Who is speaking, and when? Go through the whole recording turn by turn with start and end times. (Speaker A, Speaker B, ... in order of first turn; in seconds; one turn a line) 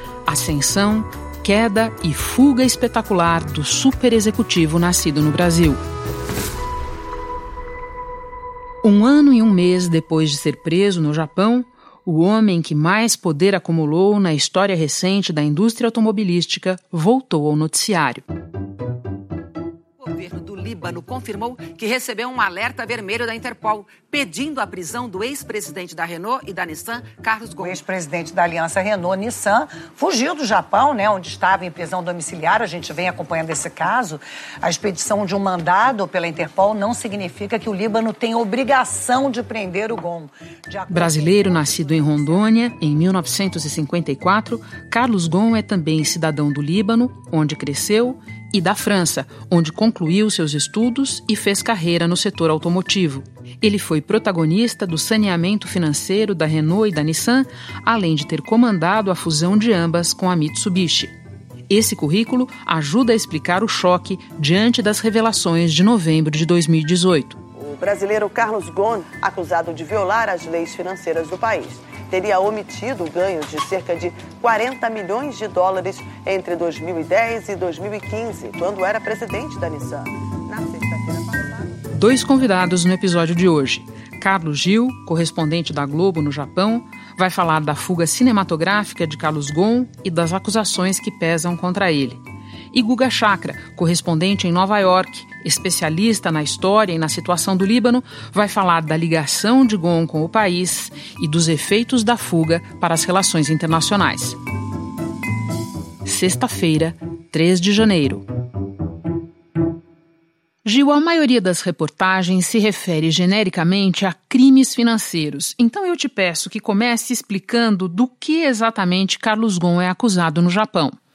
Speaker A: 0.3-5.8
Speaker A: 8.8-18.2
Speaker B: 20.0-27.8
Speaker C: 27.6-42.4
Speaker A: 40.9-61.1
Speaker A: 61.7-67.4
Speaker D: 67.6-81.8
Speaker A: 81.9-92.2
Speaker A: 92.7-104.4
Speaker A: 106.0-108.2
Speaker A: 110.6-121.0